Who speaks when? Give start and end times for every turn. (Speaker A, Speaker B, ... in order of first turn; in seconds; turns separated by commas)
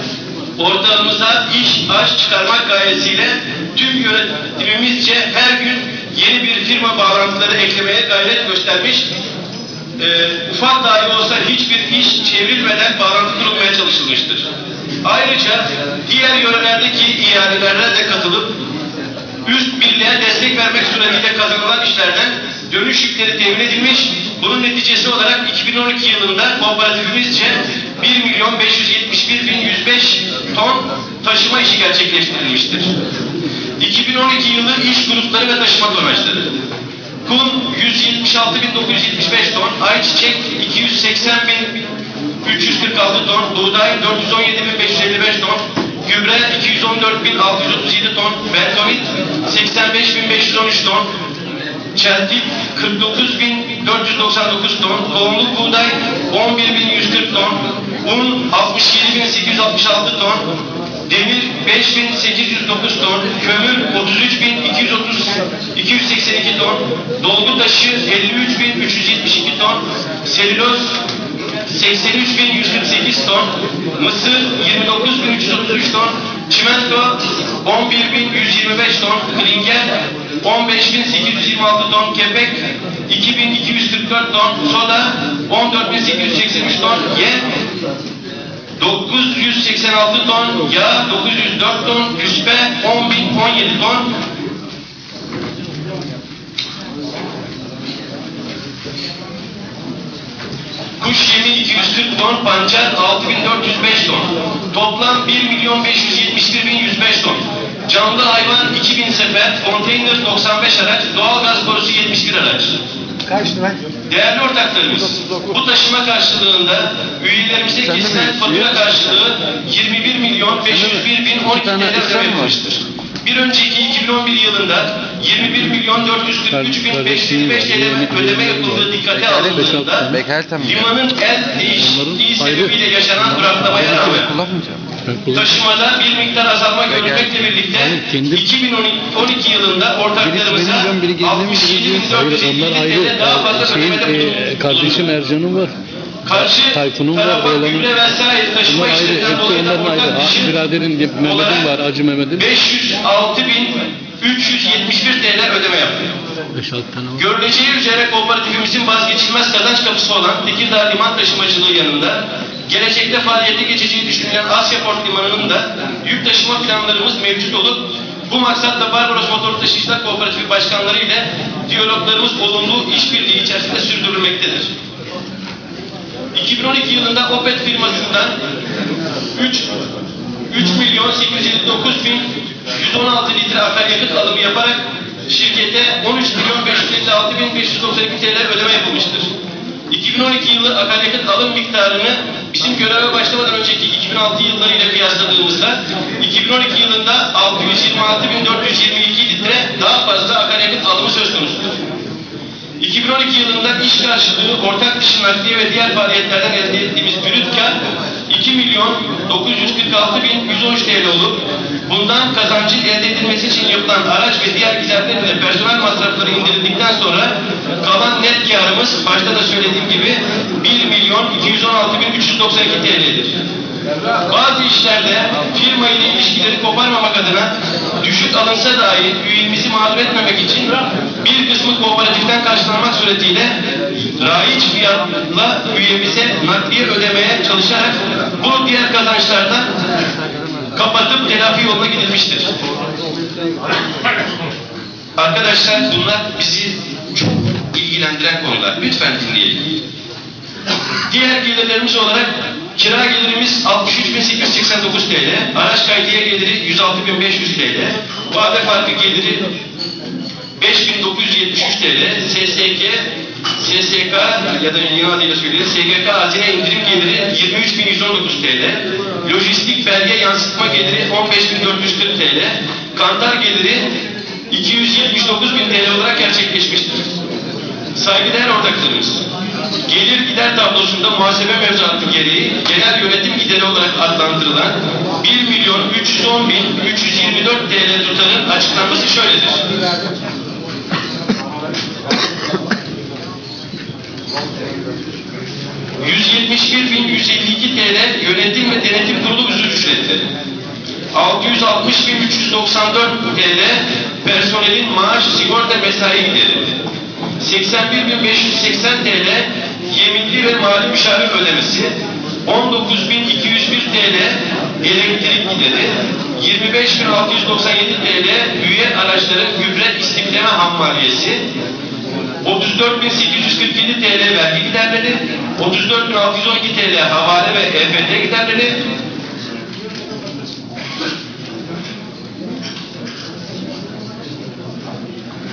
Speaker A: 0.6-9.1, Speaker A: 10.0-14.5, Speaker A: 15.0-18.6, Speaker A: 19.4-32.9, Speaker A: 33.8-36.5, Speaker A: 37.2-41.9, Speaker A: 42.4-51.1, Speaker A: 51.9-60.4, Speaker A: 61.1-71.0, Speaker A: 71.7-87.4, Speaker A: 88.8-94.1, Speaker A: 101.0-112.8, Speaker B: 113.4-113.7, Speaker A: 114.1-134.3, Speaker B: 121.5-122.4, Speaker C: 126.6-128.8, Speaker B: 129.3-130.8, Speaker B: 133.5-134.8, Speaker C: 135.1-135.5, Speaker A: 135.3-145.1, Speaker C: 137.9-138.2, Speaker C: 140.4-145.8, Speaker B: 140.7-141.3, Speaker A: 146.2-150.6, Speaker C: 146.6-147.9, Speaker C: 148.7-152.5, Speaker A: 151.2-151.7, Speaker A: 152.3-156.1, Speaker C: 156.5-157.2, Speaker A: 157.1-174.7, Speaker A: 176.3-178.4, Speaker A: 179.3-179.7, Speaker A: 180.5-189.3, Speaker A: 189.9-201.8, Speaker A: 202.8-207.8, Speaker A: 208.3-223.4, Speaker A: 224.2-233.6, Speaker A: 234.2-239.7, Speaker A: 240.7-242.5, Speaker A: 245.2-249.6, Speaker A: 251.1-259.5, Speaker A: 260.6-273.9, Speaker A: 274.5-277.1, Speaker A: 277.9-279.2, Speaker A: 279.9-289.6, Speaker A: 296.0-300.2, Speaker A: 301.1-306.8, Speaker A: 307.4-321.4, Speaker A: 322.4-328.8